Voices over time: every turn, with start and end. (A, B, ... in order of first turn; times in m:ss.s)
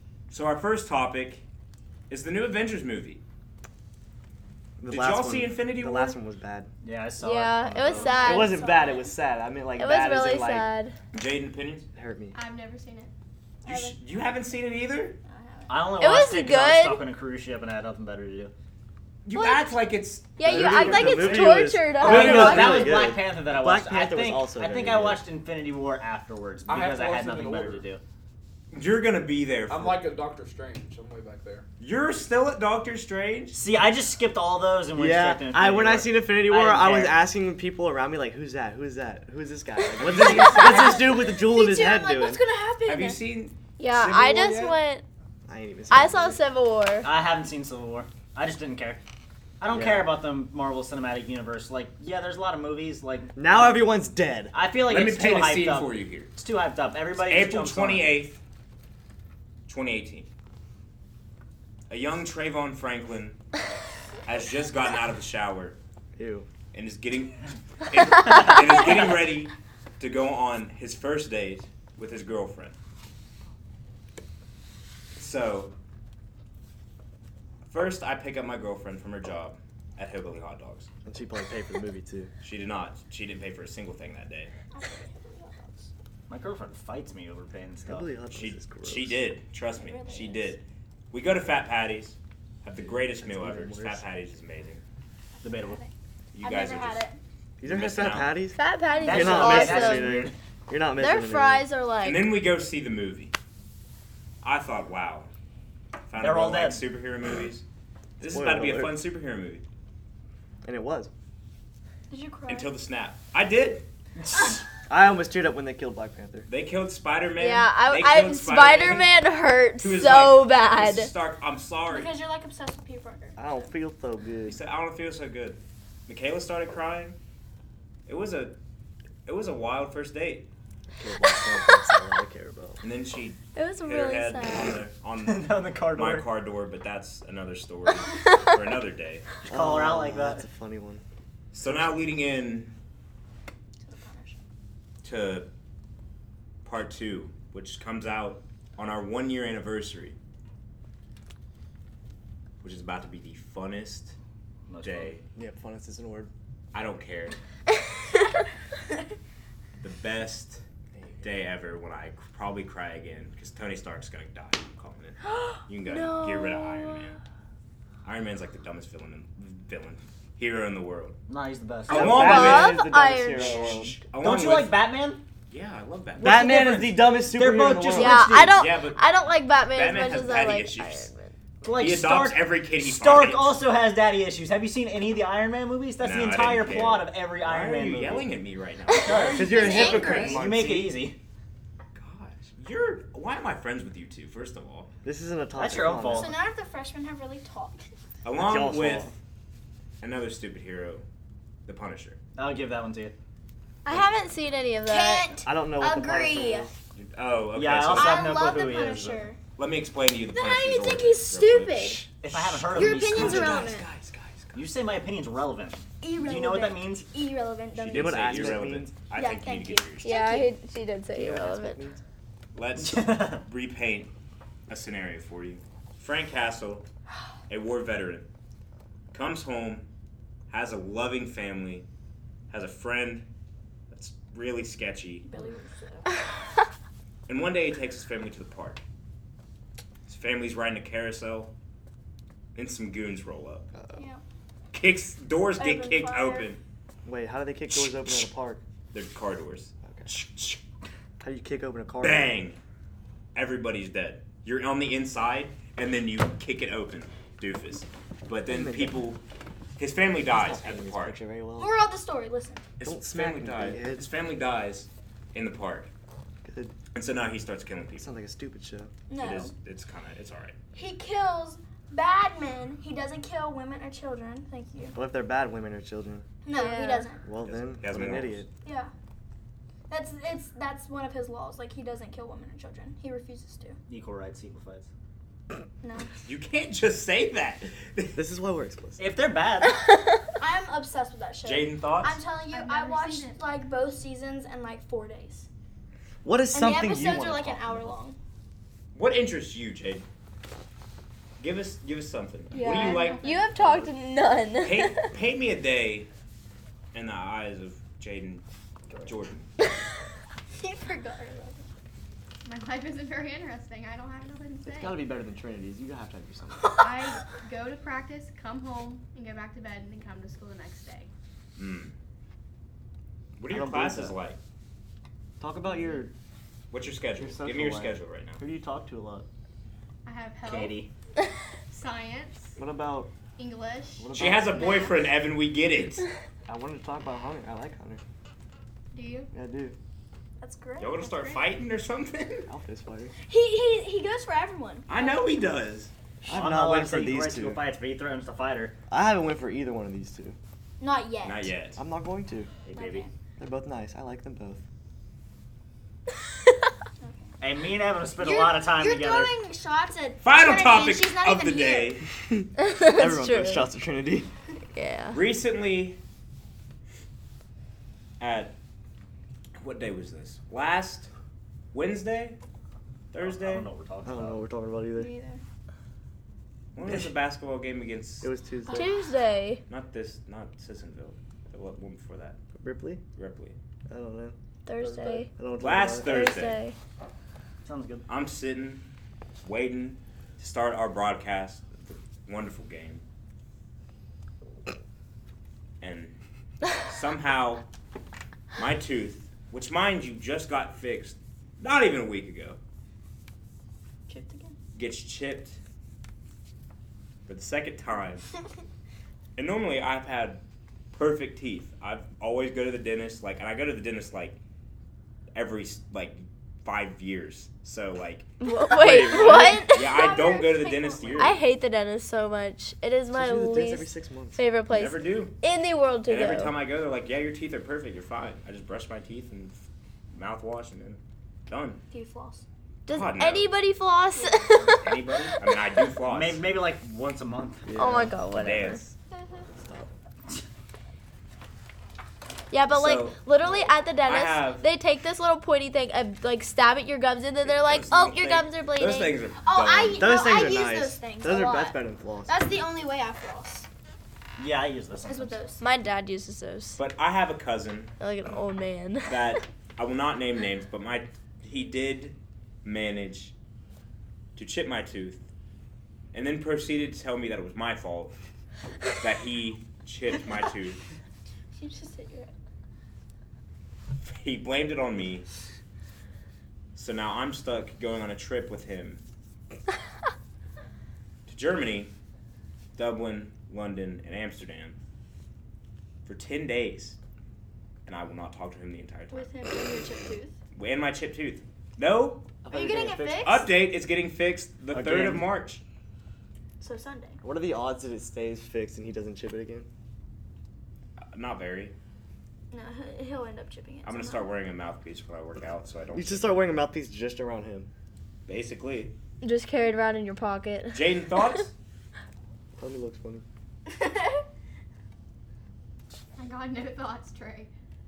0:00.3-0:01.4 A
0:02.1-0:03.2 A
0:04.8-0:06.7 B
0:04.9-0:06.2 A
0:06.8-0:08.3 C
0:07.2-0:08.6 D
0:08.0-0:09.1 E
0:08.2-0:10.7 B
0:09.8-0:10.9 D
0:11.1-0:11.8 A
0:11.9-0:12.4 B
0:12.3-0:13.1 E
0:13.6-0:14.0 E
0:13.6-0:15.2 A
0:15.2-0:16.0 E
0:15.7-0:18.5 C
0:16.0-0:17.0 D
0:19.2-0:21.4 A
0:20.4-0:22.9 D
0:20.4-0:21.1 F
0:20.7-0:25.2 B
0:21.9-0:28.0 C
0:26.7-0:27.8 F
0:28.7-0:30.1 A
0:29.7-0:31.6 F
0:31.8-0:33.6 A
0:33.5-0:37.2 C
0:34.9-0:42.4 B
0:40.0-0:41.2 A
0:40.0-0:40.3 C
0:40.7-0:43.2 E
0:42.8-0:44.8 A
0:43.8-0:45.0 D
0:45.5-0:46.4 B
0:45.9-0:47.1 D
0:47.0-0:49.0 C
0:49.6-0:53.7 C
0:49.7-0:50.1 B
0:53.3-0:54.5 B
0:54.5-0:58.2 C
0:54.8-0:56.3 A
0:57.2-0:58.4 A
0:59.7-1:00.3 A
1:01.9-1:03.4 A
1:04.2-1:05.8 A
1:06.2-1:06.5 B
1:06.7-1:12.8 A
1:15.1-1:15.7 A
1:17.7-1:20.9 A
1:21.0-1:22.3 B
1:22.4-1:24.5 A
1:24.7-1:25.9 E
1:26.3-1:28.1 C
1:27.8-1:29.3 B
1:28.3-1:34.8 A
1:29.7-1:30.6 E
1:32.7-1:34.0 B
1:35.4-1:35.8 C
1:36.3-1:37.0 A
1:36.4-1:37.2 E
1:37.6-1:41.7 B
1:37.6-1:38.4 A
1:38.5-1:40.2 D
1:38.9-1:39.7 E
1:39.0-1:40.3 C
1:41.0-1:42.3 D
1:42.0-1:43.3 A
1:44.4-1:45.3 A
1:46.0-1:47.6 A
1:46.2-1:46.8 C
1:48.2-1:49.6 A
1:48.2-1:49.0 B
1:50.6-1:51.1 B
1:52.1-1:52.7 E
1:52.5-1:53.8 A
1:54.3-1:54.6 C
1:54.9-1:56.5 B
1:56.5-1:59.2 A
1:57.4-2:01.1 D
1:59.8-2:02.1 A
2:01.9-2:03.5 E
2:03.4-2:04.6 B
2:04.4-2:07.2 A
2:08.0-2:08.6 A
2:09.2-2:10.5 A
2:10.9-2:12.8 B
2:12.8-2:19.2 A
2:13.6-2:14.8 D
2:15.2-2:16.3 C
2:19.4-2:20.4 C
2:19.4-2:21.0 B
2:21.5-2:22.7 A
2:23.8-2:24.4 E
2:25.0-2:25.5 A
2:26.6-2:30.2 A
2:32.6-2:34.1 A
2:34.7-2:35.1 C
2:34.8-2:35.2 A
2:35.3-2:36.3 B
2:36.7-2:37.4 A
2:39.8-2:40.6 A
2:40.9-2:41.2 B
2:41.2-2:47.2 A
2:45.8-2:47.2 D
2:48.0-2:51.2 A
2:51.3-2:52.4 C
2:51.9-2:52.8 A
2:51.9-2:54.0 B
2:51.9-2:53.7 D
2:53.3-2:54.8 A
2:54.1-2:55.2 C
2:55.5-2:56.5 A
2:56.2-2:58.3 B
2:56.2-2:58.7 C
2:57.9-3:01.3 D
2:58.5-2:59.0 A
2:59.7-3:01.1 A
3:01.6-3:08.3 C
3:01.8-3:03.6 A
3:06.0-3:10.1 A
3:09.0-3:11.2 C
3:09.1-3:10.4 E
3:09.2-3:11.0 B
3:11.9-3:14.9 A
3:15.0-3:16.4 B
3:15.6-3:16.4 C
3:16.1-3:17.9 E
3:18.2-3:19.1 A
3:18.4-3:19.2 B
3:20.0-3:21.0 A
3:21.6-3:22.2 A
3:22.4-3:23.1 C
3:23.8-3:25.3 D
3:24.8-3:26.7 E
3:25.4-3:26.7 B
3:26.9-3:28.2 A
3:27.5-3:29.3 C
3:27.9-3:29.4 E
3:29.6-3:34.6 A
3:30.3-3:32.0 E
3:32.2-3:33.7 C
3:32.7-3:33.9 E
3:34.5-3:37.1 C
3:36.0-3:38.6 E
3:37.8-3:40.2 A
3:37.9-3:38.9 B
3:39.1-3:40.5 E
3:40.0-3:41.8 D
3:41.1-3:42.0 B
3:42.5-3:44.1 A
3:42.8-3:43.4 C
3:44.7-3:46.8 A
3:47.5-3:48.3 A
3:49.1-3:49.9 A
3:50.5-3:51.8 A
3:52.5-3:53.3 A
3:53.9-3:55.3 A
3:55.2-3:56.1 E
3:57.3-3:58.8 A
4:00.1-4:01.5 A
4:02.5-4:03.7 A
4:03.7-4:04.0 B
4:03.9-4:04.2 E
4:04.7-4:06.6 A
4:05.6-4:06.5 E
4:07.0-4:08.6 B
4:08.9-4:10.6 A
4:11.2-4:12.4 B
4:12.0-4:12.6 A
4:13.3-4:19.2 A
4:18.5-4:19.0 B
4:19.8-4:21.2 A
4:20.3-4:21.8 B
4:21.6-4:22.6 E
4:22.8-4:25.9 A
4:22.8-4:24.1 B
4:26.4-4:26.7 B
4:26.9-4:28.1 A
4:28.0-4:28.9 B
4:29.1-4:29.5 E
4:29.2-4:30.6 A
4:30.7-4:34.9 E
4:34.9-4:36.2 B
4:36.4-4:37.2 E
4:36.5-4:37.1 D
4:37.2-4:38.5 B
4:37.4-4:38.5 A
4:38.6-4:38.9 E
4:39.9-4:43.8 E
4:43.9-4:44.9 C
4:45.8-4:46.1 E
4:46.2-4:48.2 A
4:48.1-4:49.1 B
4:49.0-4:49.7 C
4:49.7-4:50.2 D
4:50.4-4:55.5 E
4:51.4-4:52.2 A
4:52.5-4:53.4 G
4:56.2-4:57.9 B
4:56.5-4:58.2 E
4:58.9-5:00.0 A
5:01.4-5:03.3 A
5:02.5-5:05.1 D
5:02.7-5:03.0 E
5:04.6-5:06.1 A
5:06.9-5:08.4 A
5:09.0-5:09.4 A
5:10.6-5:11.6 E
5:12.4-5:14.9 G
5:14.6-5:16.8 B
5:16.6-5:17.2 E
5:16.8-5:21.1 G
5:21.6-5:21.9 A
5:23.4-5:24.4 A
5:23.5-5:24.2 B
5:25.4-5:26.1 B
5:26.7-5:28.4 A
5:27.2-5:29.3 B
5:30.0-5:30.8 G
5:30.4-5:30.9 C
5:31.7-5:32.5 G
5:32.6-5:33.1 B
5:33.4-5:34.0 G
5:34.0-5:34.7 B
5:34.1-5:36.0 A
5:36.5-5:38.0 B
5:38.9-5:39.3 G
5:39.3-5:39.8 B
5:40.4-5:41.0 E
5:40.8-5:42.5 A
5:42.5-5:43.2 B
5:43.2-5:45.2 E
5:44.9-5:45.9 A
5:46.2-5:47.6 B
5:46.2-5:48.8 C
5:48.9-5:50.4 B
5:50.8-5:51.5 E
5:51.2-5:51.8 A
5:51.8-5:52.5 B
5:52.7-5:53.0 C
5:52.7-5:53.1 E
5:53.4-5:54.6 B
5:57.0-5:57.4 E
5:57.4-5:59.3 C
5:58.2-6:02.0 E
6:00.2-6:02.0 A
6:02.3-6:04.3 B
6:02.6-6:03.7 D
6:04.7-6:05.2 D
6:05.1-6:06.0 A
6:08.2-6:08.5 A
6:09.6-6:11.1 A
6:11.7-6:12.4 A
6:13.1-6:13.7 A
6:13.2-6:14.4 C
6:14.0-6:15.1 B
6:14.9-6:15.4 E
6:16.7-6:18.3 A
6:18.2-6:19.0 B
6:18.7-6:19.6 D
6:19.7-6:22.4 A
6:22.6-6:23.0 B
6:23.2-6:23.6 A
6:23.9-6:26.2 B
6:24.6-6:25.3 D
6:25.6-6:26.6 A
6:26.0-6:26.8 D
6:27.6-6:28.0 C
6:28.1-6:28.9 A
6:29.4-6:33.0 A
6:35.8-6:36.2 A
6:36.8-6:37.7 A
6:38.5-6:42.6 A
6:44.1-6:44.6 E
6:44.7-6:45.6 A
6:47.3-6:48.2 A
6:49.4-6:54.4 A
6:55.3-7:01.4 A
6:58.4-7:00.1 D
6:59.3-7:01.3 E
7:01.2-7:06.5 D
7:03.1-7:04.4 B
7:04.7-7:05.4 A
7:06.0-7:11.8 A
7:11.9-7:12.4 E
7:12.9-7:14.8 D
7:12.9-7:13.6 A
7:14.1-7:14.9 E
7:14.8-7:16.4 A
7:16.0-7:17.7 C
7:17.6-7:18.2 B
7:17.7-7:18.8 D
7:18.3-7:18.8 A
7:19.1-7:19.5 E
7:19.6-7:19.9 B
7:22.5-7:29.2 D
7:22.7-7:23.2 A
7:24.0-7:24.7 A
7:27.4-7:30.1 A
7:29.4-7:33.7 E
7:30.0-7:32.4 B
7:34.4-7:35.4 C
7:35.0-7:35.6 E
7:35.6-7:36.8 D
7:36.8-7:37.9 A
7:38.0-7:39.4 D
7:39.1-7:43.3 A
7:44.4-7:45.3 A
7:46.1-7:48.1 A
7:49.0-7:50.8 A
7:51.5-7:52.3 E
7:54.0-7:55.2 A
7:56.7-7:59.0 A
8:01.3-8:01.9 A
8:02.8-8:04.8 A
8:06.0-8:07.0 A
8:07.8-8:09.3 A
8:09.1-8:10.4 E
8:10.5-8:12.2 A
8:12.4-8:13.4 B
8:12.5-8:13.5 E
8:13.2-8:15.6 A
8:14.7-8:15.3 C
8:16.6-8:17.2 E
8:17.2-8:19.7 B
8:21.1-8:21.7 A
8:22.5-8:24.3 E
8:23.8-8:26.6 A
8:25.9-8:27.7 B
8:28.2-8:28.9 A
8:29.2-8:31.2 D
8:30.7-8:31.5 A
8:32.6-8:33.2 B
8:33.7-8:34.2 E
8:36.2-8:37.3 G